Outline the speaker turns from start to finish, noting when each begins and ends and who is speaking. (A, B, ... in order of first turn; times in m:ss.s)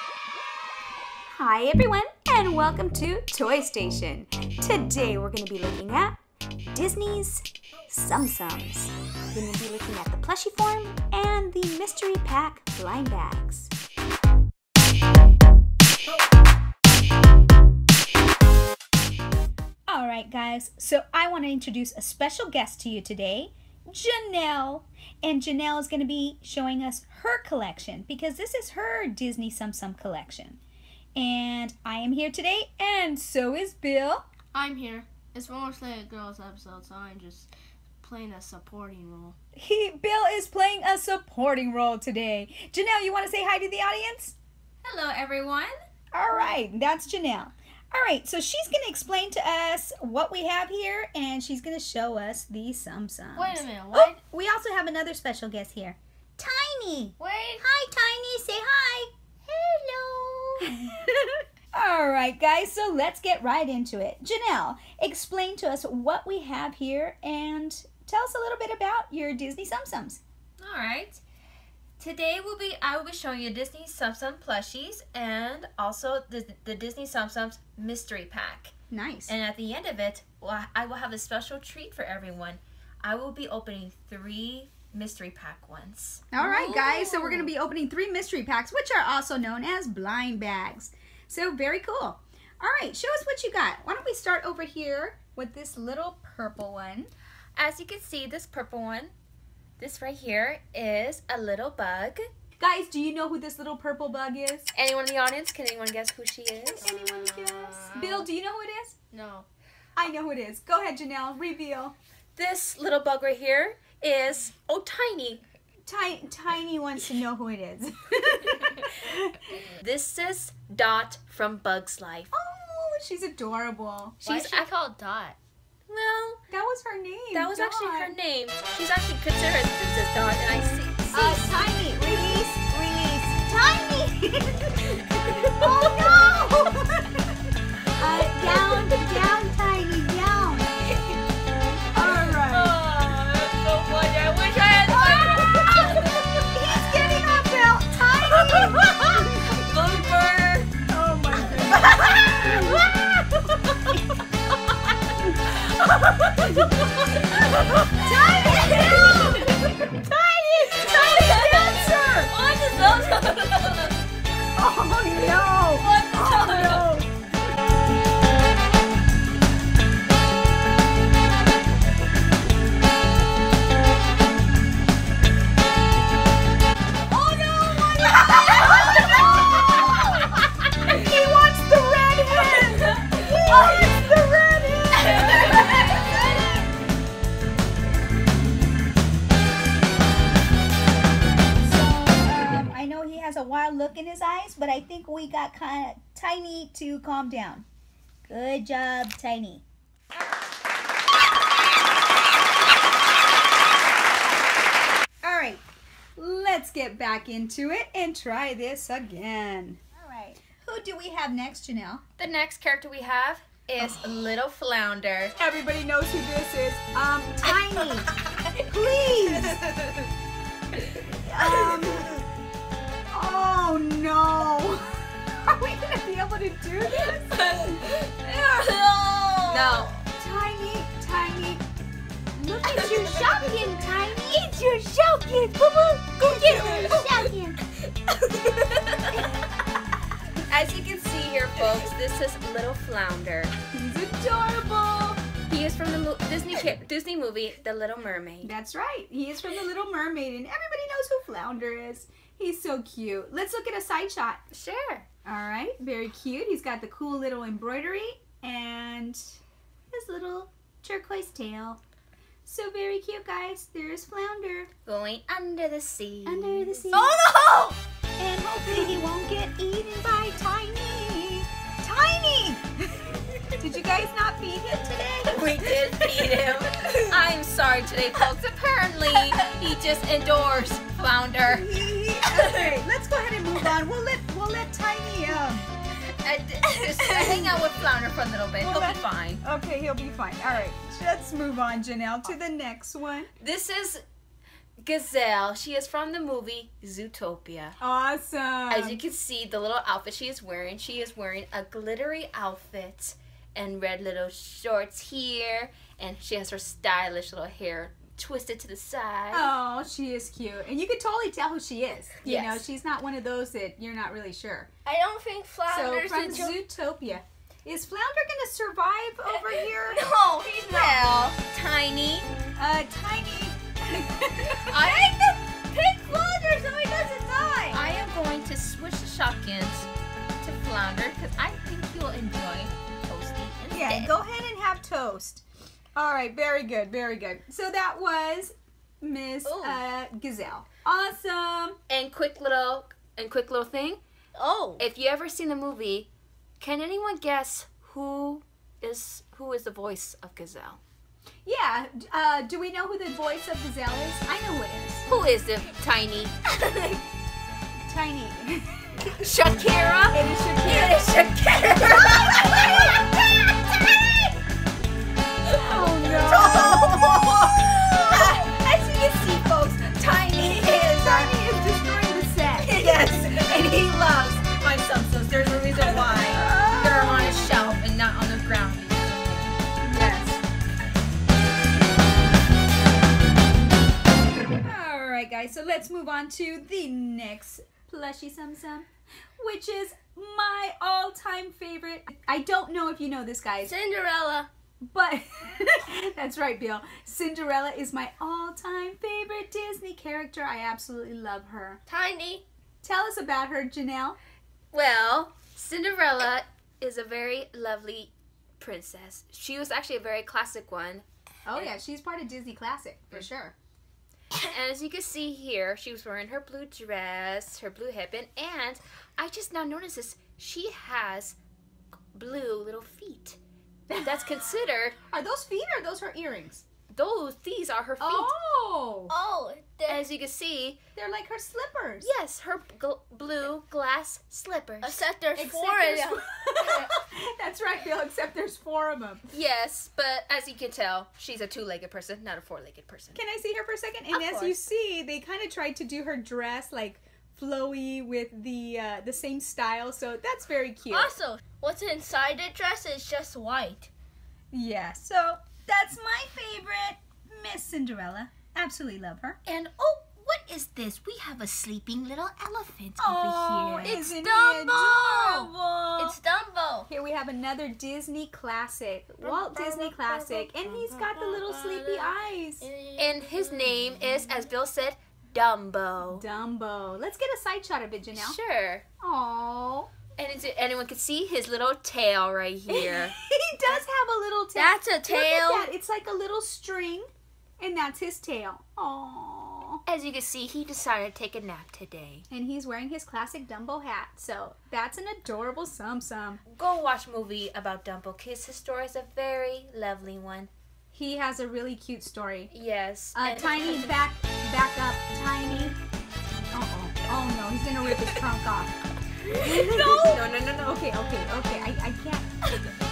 0:01.3-0:06.2 A
0:06.7-0:13.7 A
0:19.9-0:30.6 A
0:31.2-0:34.3 A
0:34.5-0:37.5 B
0:38.0-0:39.4 B
0:39.6-0:44.4 A
0:44.8-0:45.7 C
0:46.1-0:59.1 A
0:53.4-0:54.2 B
0:57.2-0:57.6 B
0:59.5-1:00.7 B
1:00.6-1:10.2 A
1:10.6-1:11.2 C
1:12.0-1:18.7 C
1:18.9-1:19.3 A
1:19.3-1:27.2 C
1:26.3-1:37.1 A
1:26.6-1:27.4 B
1:37.6-1:39.1 C
1:39.8-1:42.3 C
1:42.6-1:44.7 A
1:44.7-1:46.9 C
1:46.6-1:49.0 A
1:46.9-1:48.3 B
1:49.1-1:49.5 B
1:50.0-1:52.0 A
1:52.4-1:55.4 C
1:55.8-1:59.7 A
1:59.6-2:02.3 C
2:02.3-2:04.2 A
2:04.2-2:04.7 C
2:04.2-2:05.4 B
2:05.9-2:06.4 C
2:06.5-2:08.1 A
2:07.3-2:11.6 C
2:11.1-2:21.0 A
2:15.3-2:16.2 C
2:18.0-2:19.1 C
2:21.9-2:22.8 A
2:22.0-2:27.4 C
2:24.8-2:29.5 A
2:28.2-2:30.8 C
2:30.9-2:32.9 A
2:31.5-2:34.0 C
2:35.2-2:35.5 A
2:35.5-2:37.9 C
2:36.4-2:36.8 A
2:37.8-2:42.3 A
2:38.5-2:39.2 B
2:38.7-2:39.6 C
2:40.8-2:43.9 B
2:41.3-2:41.6 C
2:43.1-2:43.8 C
2:44.6-2:47.1 A
2:45.8-2:46.8 B
2:57.0-2:59.9 B
2:57.7-3:00.0 A
2:58.6-2:59.1 C
3:00.8-3:06.5 A
3:05.1-3:06.0 C
3:05.4-3:06.2 B
3:11.6-3:17.6 A
3:18.3-3:19.6 A
3:25.2-3:25.6 A
3:26.2-3:32.0 A
3:32.2-3:35.3 C
3:35.4-3:39.7 A
3:39.5-3:39.8 C
3:41.1-3:42.2 A
3:43.1-3:48.7 A
3:47.0-3:49.9 B
3:49.5-3:50.0 C
3:50.1-3:51.6 A
3:52.4-3:57.6 A
3:53.0-3:53.4 C
3:56.2-3:57.4 B
3:56.4-3:57.0 C
3:58.1-3:59.1 B
3:59.1-3:59.5 A
4:00.4-4:03.5 C
4:03.7-4:05.2 A
4:05.5-4:08.5 C
4:08.4-4:14.4 A
4:14.5-4:15.1 C
4:15.2-4:19.4 A
4:19.9-4:21.8 A
4:22.4-4:24.7 A
4:24.8-4:26.9 C
4:26.2-4:27.3 A
4:26.9-4:27.8 B
4:28.2-4:37.1 A
4:35.3-4:42.8 C
4:41.4-4:45.6 A
4:46.0-4:49.4 C
4:47.0-4:47.6 A
4:48.6-4:53.3 A
4:53.4-4:54.0 C
4:54.8-4:57.8 C
4:57.8-4:59.0 A
4:58.7-5:09.5 C
5:09.3-5:14.7 A
5:12.2-5:12.6 C
5:14.8-5:16.6 B
5:15.7-5:21.1 A
5:19.6-5:20.9 B
5:20.4-5:22.3 C
5:22.6-5:24.8 A
5:24.7-5:25.6 C
5:24.7-5:25.1 B
5:25.7-5:27.1 B
5:27.0-5:27.8 A
5:27.7-5:29.9 C
5:30.4-5:34.1 C
5:33.7-5:35.4 A
5:36.0-5:41.8 A
5:39.4-5:39.8 B
5:41.9-5:44.0 C
5:44.3-5:44.8 B
5:44.8-5:46.1 C
5:46.6-5:50.8 C
5:51.4-5:55.0 A
5:55.1-5:56.4 C
5:57.9-5:58.9 A
5:59.1-6:03.2 C
6:00.1-6:01.1 A
6:01.8-6:03.0 A
6:03.7-6:04.0 C
6:05.5-6:13.8 A
6:05.9-6:08.4 C
6:10.3-6:11.3 C
6:12.6-6:19.6 C
6:15.8-6:17.4 A
6:19.8-6:20.4 A
6:24.6-6:33.7 A
6:33.6-6:34.5 B
6:34.8-6:41.8 A
6:41.9-6:42.4 B
6:42.8-6:44.2 A
6:44.7-6:51.7 C
6:51.4-6:53.5 A
6:54.3-7:01.4 C
7:02.1-7:03.4 C
7:03.9-7:04.3 A
7:04.0-7:05.0 C
7:05.1-7:06.6 A
7:06.9-7:08.3 C
7:08.0-7:09.1 A
7:09.1-7:10.0 B
7:09.9-7:10.8 C
7:11.0-7:12.1 A
7:12.0-7:15.0 C
7:14.8-7:16.9 B
7:15.4-7:19.2 A
7:19.3-7:23.2 C
7:23.1-7:31.1 A
7:24.1-7:24.6 C
7:30.9-7:33.9 B
7:34.5-7:39.4 A
7:39.4-7:44.2 C
7:43.0-7:46.2 A
7:43.8-7:46.9 B
7:46.9-7:52.6 A
7:49.2-7:54.4 B
7:53.0-7:56.2 C
7:56.1-7:58.4 A
7:58.1-7:58.8 C
7:59.0-7:59.9 A
8:00.2-8:03.2 C
8:02.7-8:07.1 A
8:04.5-8:05.7 B
8:07.6-8:09.8 A
8:09.8-8:12.2 C
8:12.3-8:16.4 A
8:16.4-8:20.5 C
8:20.9-8:22.5 A
8:22.5-8:23.9 C
8:23.1-8:25.8 A
8:26.5-8:28.8 A
8:29.3-8:32.3 A
8:29.5-8:30.9 C